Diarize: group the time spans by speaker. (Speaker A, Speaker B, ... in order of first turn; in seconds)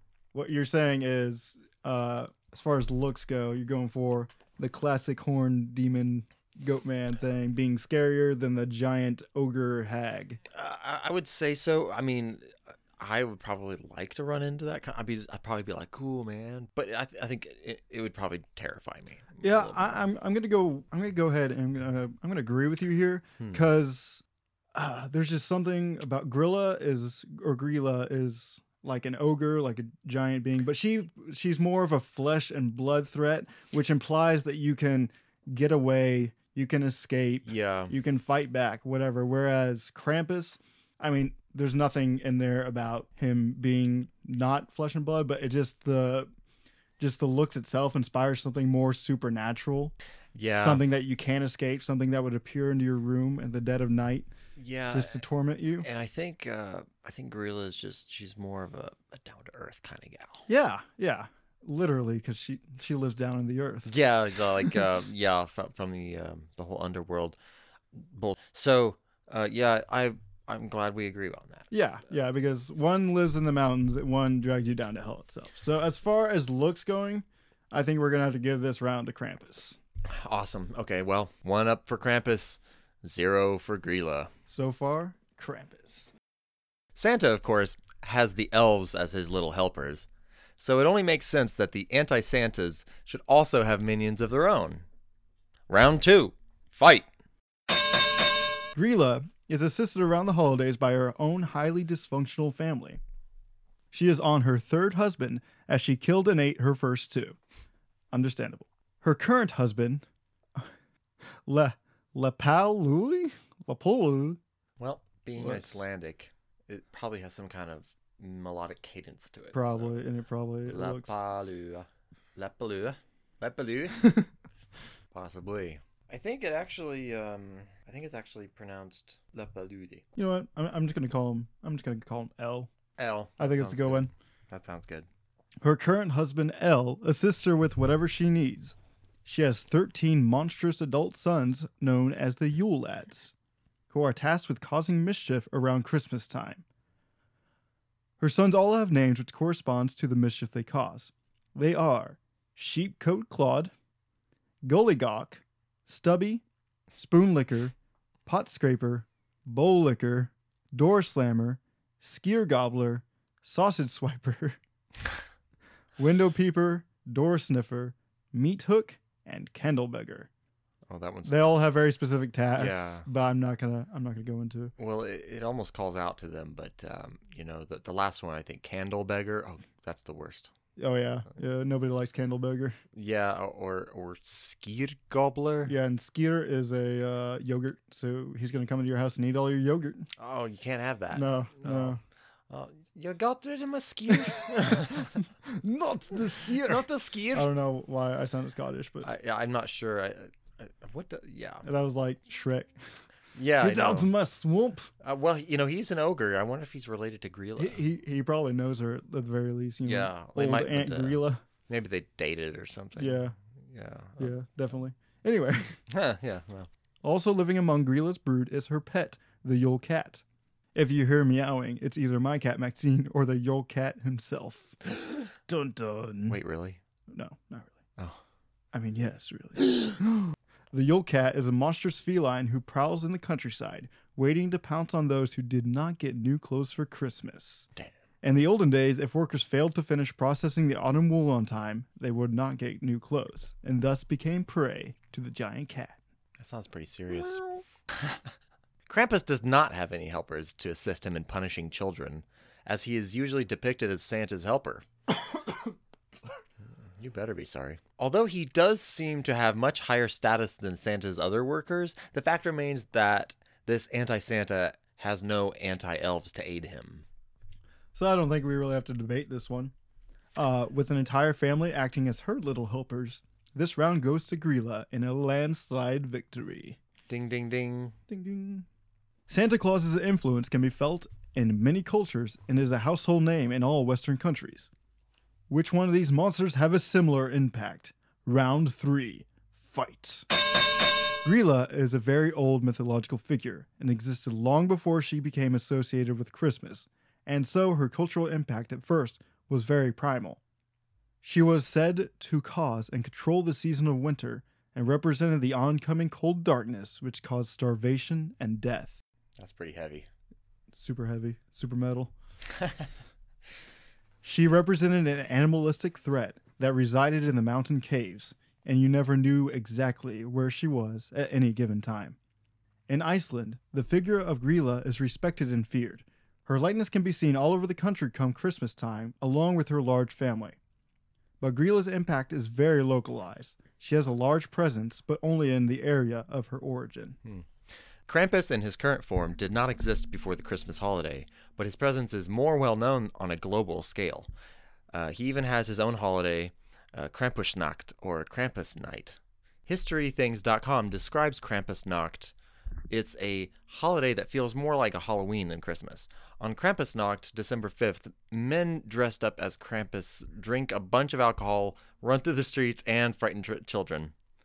Speaker A: 0.3-10.4, 19.4-24.2, 24.7-46.3, 47.0-49.9, 50.5-54.3, 54.9-55.9, 60.5-63.9, 71.7-79.8, 84.5-86.1, 98.7-103.0, 103.9-107.4, 108.1-110.0, 111.5-114.4, 115.4-115.8, 119.5-121.2, 124.0-124.3, 130.2-132.7, 133.4-134.1, 135.6-143.3, 143.9-146.6, 148.2-153.7, 154.7-156.4, 156.9-157.7, 158.2-164.6, 166.0-170.3, 171.2-174.7, 180.8-182.8, 185.7-190.1, 191.1-192.0, 195.4-199.1, 201.6-202.7, 203.6-204.9, 207.6-211.4, 212.9-213.3, 214.2-215.8, 217.0-220.2, 220.7-224.8, 225.4-226.4, 227.1-227.8, 228.7-237.7, 238.2-246.0, 267.9-269.7, 270.4-276.8, 278.1-278.6, 279.3-284.7, 285.5-290.2, 291.2-300.4, 301.2-309.0, 310.7-312.1, 314.2-322.2, 322.9-330.6, 331.4-337.2
Speaker B: 10.5-20.0, 37.5-37.9, 50.3-50.8, 54.5-55.2, 55.8-60.5, 63.9-67.4, 67.9-71.7, 80.0-84.3, 86.9-90.1, 90.6-94.8, 95.7-97.1, 114.8-120.0, 120.7-124.0, 125.1-130.0, 133.0-135.1, 170.9-171.5, 172.6-173.1, 174.8-180.5, 182.9-185.7, 190.2-192.0, 192.5-195.2, 196.4-197.5, 199.0-201.7, 203.3-204.1, 205.0-207.8, 209.8-214.3, 215.9-216.7, 226.3-226.8, 246.4-248.3, 248.8-254.8, 256.9-267.0, 277.1-277.9, 309.4-310.1, 338.1-344.3, 344.9-352.3, 352.9-364.1